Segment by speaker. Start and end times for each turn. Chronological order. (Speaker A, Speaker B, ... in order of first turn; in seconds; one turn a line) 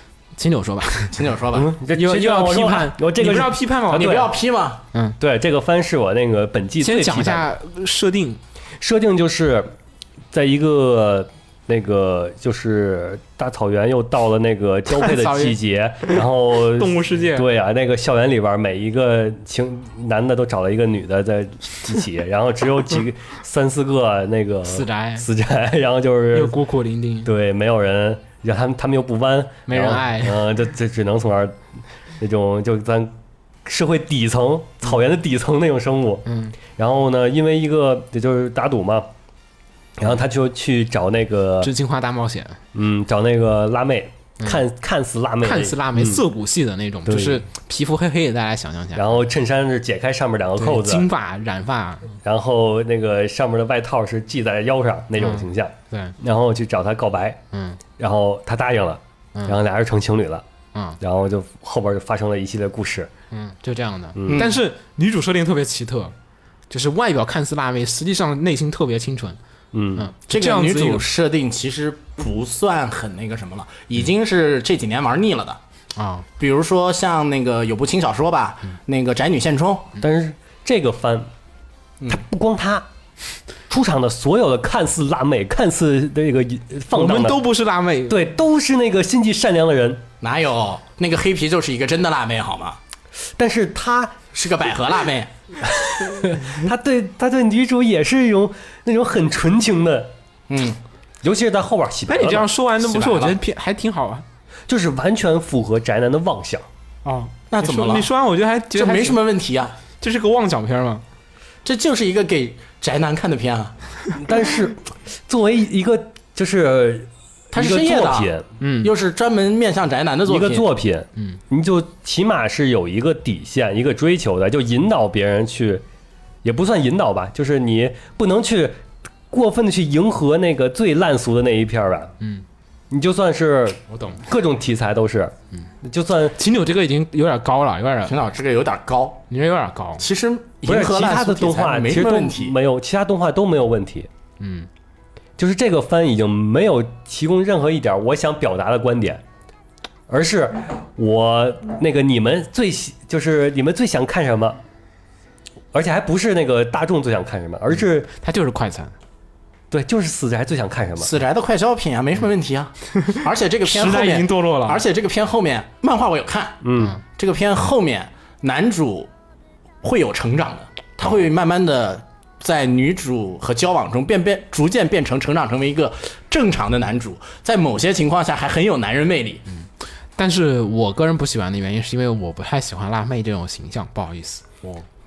Speaker A: 0.4-1.2
Speaker B: 1.1-1.7
Speaker C: 1.5-4.2
Speaker A: 1.9-4.3
Speaker B: 3.9-4.8
Speaker C: 5.2-7.5
Speaker A: 6.8-8.4
Speaker C: 8.8-9.7
Speaker C: 10.3-26.6
Speaker A: 14.9-16.2
Speaker A: 16.7-17.5
Speaker A: 24.7-25.3
Speaker A: 26.3-27.3
Speaker C: 27.2-31.6
Speaker A: 29.7-30.4
Speaker C: 32.2-33.1
Speaker C: 33.6-39.1
Speaker A: 36.3-36.5
Speaker C: 40.0-41.7
Speaker A: 41.6-42.6
Speaker C: 42.7-46.2
Speaker A: 45.4-49.2
Speaker C: 47.1-47.4
Speaker C: 49.0-51.1
Speaker A: 50.6-52.1
Speaker C: 52.2-57.4
Speaker A: 55.2-56.1
Speaker A: 57.5-57.8
Speaker C: 58.0-60.4
Speaker C: 61.0-63.1
Speaker A: 63.3-66.1
Speaker C: 64.2-64.5
Speaker B: 64.3-64.5
Speaker A: 66.7-69.4
Speaker C: 69.7-70.1
Speaker A: 70.0-71.0
Speaker B: 70.3-75.6
Speaker A: 76.0-76.3
Speaker B: 76.4-79.9
Speaker C: 80.0-81.3
Speaker C: 82.1-82.9
Speaker C: 83.7-87.4
Speaker A: 86.9-88.2
Speaker C: 88.1-90.0
Speaker B: 90.2-92.8
Speaker C: 93.4-94.2
Speaker B: 94.3-95.3
Speaker C: 95.6-100.1
Speaker B: 100.5-100.8
Speaker C: 101.2-102.5
Speaker A: 102.1-104.2
Speaker B: 102.8-103.4
Speaker C: 104.7-106.7
Speaker A: 107.0-109.2
Speaker B: 107.5-108.1
Speaker B: 108.7-109.8
Speaker A: 110.0-111.0
Speaker B: 111.7-113.8
Speaker C: 114.2-118.5
Speaker B: 117.5-120.7
Speaker A: 118.6-118.9
Speaker C: 120.3-125.8
Speaker C: 126.4-128.8
Speaker C: 129.3-132.1
Speaker C: 132.9-136.4
Speaker A: 133.9-134.2
Speaker A: 136.4-138.2
Speaker B: 138.1-139.2
Speaker A: 139.3-140.1
Speaker B: 140.0-142.6
Speaker C: 140.7-144.1
Speaker A: 144.4-144.7
Speaker C: 145.4-149.2
Speaker C: 150.1-154.6
Speaker C: 155.7-158.1
Speaker A: 158.2-158.9
Speaker C: 159.7-161.1
Speaker B: 161.0-169.1
Speaker A: 163.0-164.8
Speaker C: 166.6-166.9
Speaker B: 169.8-179.5
Speaker A: 179.6-184.8